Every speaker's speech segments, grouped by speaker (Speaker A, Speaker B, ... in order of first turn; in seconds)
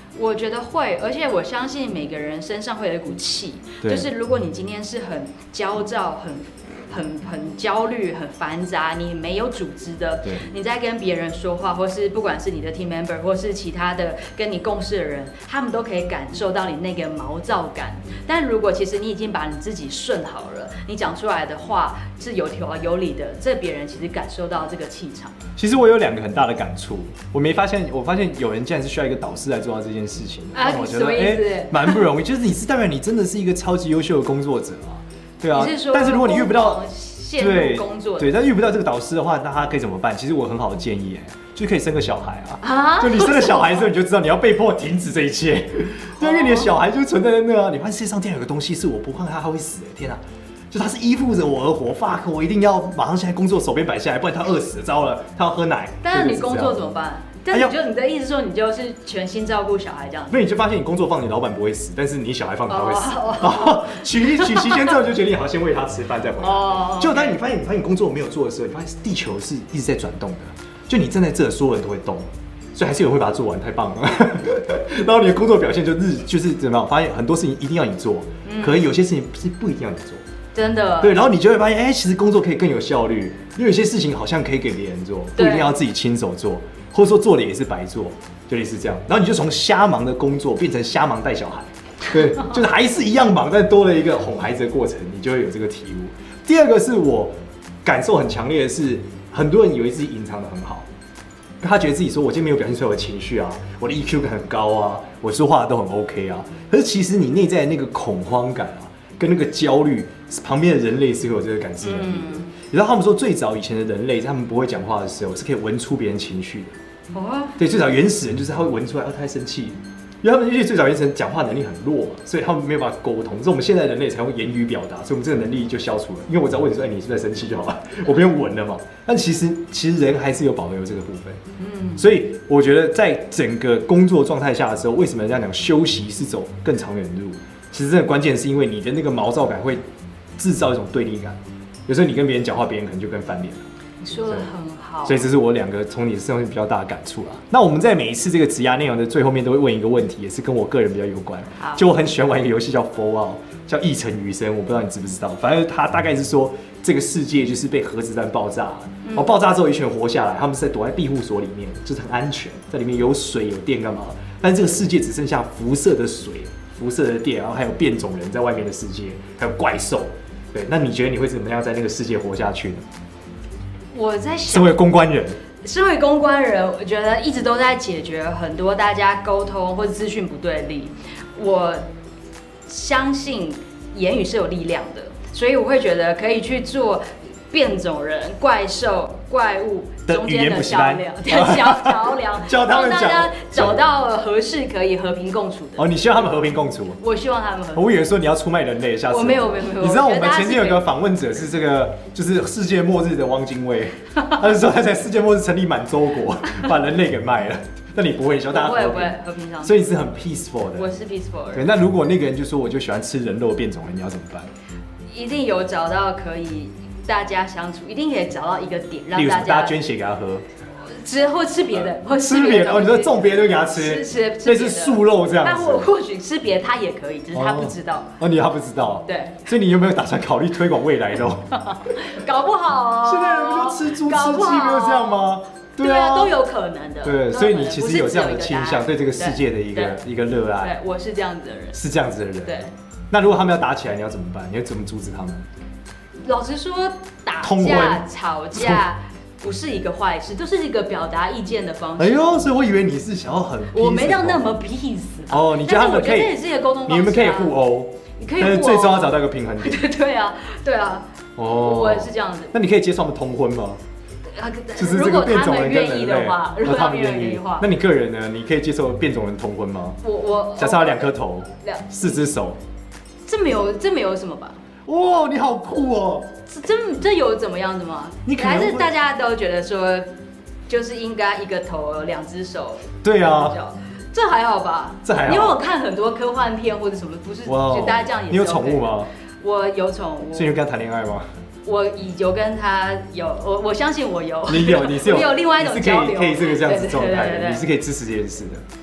Speaker A: 0.2-25.4, 30.5-32.0, 35.5-38.3, 42.6-43.9, 46.2-46.7, 56.0-60.4, 62.7-64.9, 66.4-67.4, 78.5-78.8, 80.5-81.2, 85.4-85.8, 111.8-112.5, 117.1-117.6, 131.6-132.1, 144.0-145.3, 151.6-151.8, 159.0-159.3, 173.9-174.8, 175.6-181.8, 182.7-196.2, 197.0-197.9, 199.1-200.8, 208.5-209.8, 210.8-211.7, 215.1-219.8, 220.9-228.1, 229.1-229.4, 231.5-240.0, 240.6-241.8, 242.4-242.7, 246.2-252.4, 253.7-257.6, 258.2-262.6, 264.4-267.7, 270.0-272.2, 273.3-274.6, 276.5-280.1, 280.7-290.6, 291.6-297.7
Speaker B: 3.8-4.1, 25.6-36.8, 37.4-56.8, 60.3-80.2, 81.0-100.9, 101.6-116.7, 117.6-131.4, 132.0-139.8, 140.4-143.6, 145.1-172.8, 174.5-175.4, 190.1-193.8, 195.8-197.0, 197.8-210.9, 211.5-214.5, 219.1-220.4, 221.8-225.9, 227.3-231.9, 233.0-236.4, 237.0-240.8, 241.7-245.5, 247.4-248.8, 252.0-254.4, 255.3-259.8, 261.4-263.8, 264.8-270.0, 270.6-272.6, 274.9-276.3, 278.3-278.9, 283.0-283.6, 285.1-285.6, 287.5-289.1, 290.3-291.3, 294.5-298.6